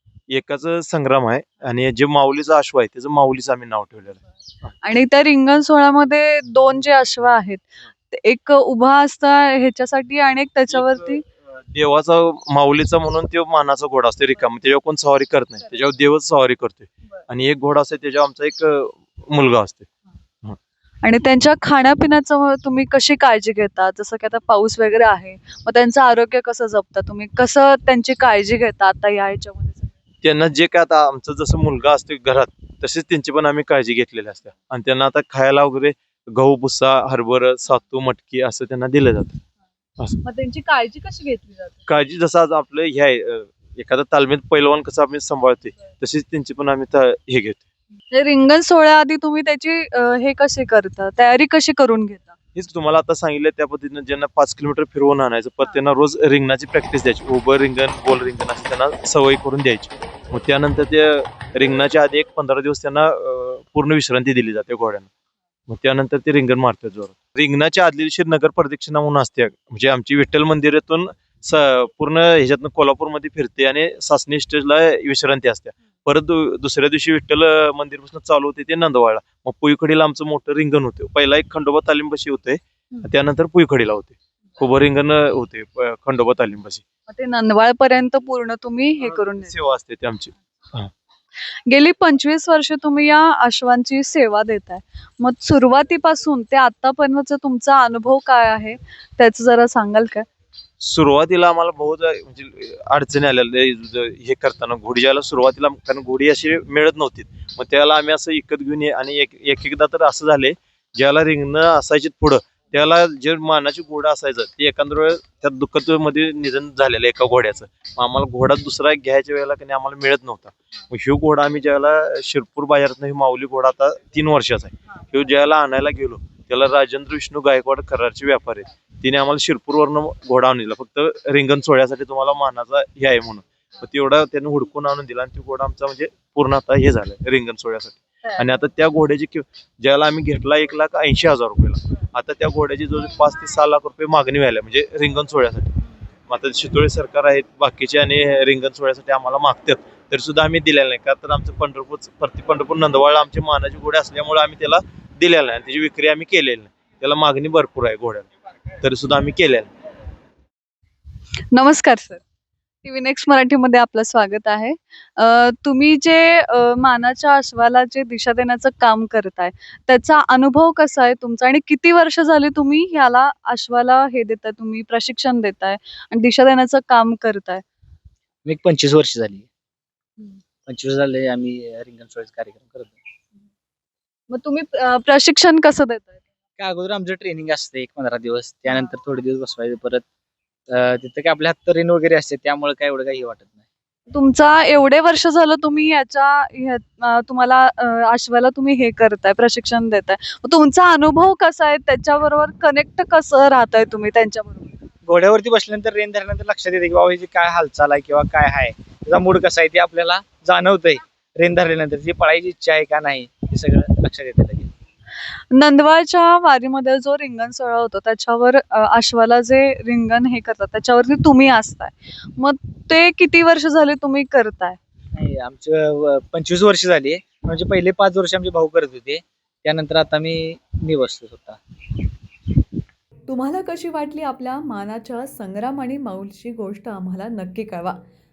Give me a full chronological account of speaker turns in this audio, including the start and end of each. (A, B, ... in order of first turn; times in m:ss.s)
0:00.3-0:04.7 A
0:04.8-0:11.2 B
0:11.7-0:19.9 A
0:21.0-0:29.9 B
0:30.2-0:39.4 A
0:40.2-0:41.8 B
0:41.9-0:47.6 A
0:48.1-0:52.3 B
0:52.5-1:05.1 A
1:05.7-1:26.8 A
1:27.1-1:29.5 B
1:29.0-1:30.9 A
1:31.6-1:40.3 B
1:40.8-2:38.3 A
2:38.8-2:39.7 A
2:41.5-2:42.2 B
2:42.8-2:57.6 B
2:58.4-2:59.5 C
3:00.7-3:03.0 C
3:04.3-3:06.2 B
3:06.6-3:10.0 C
3:10.7-3:13.6 C
3:14.1-3:24.8 B
3:25.0-3:34.7 C
3:35.5-3:44.8 B
3:45.1-3:51.6 C
3:53.3-3:58.0 D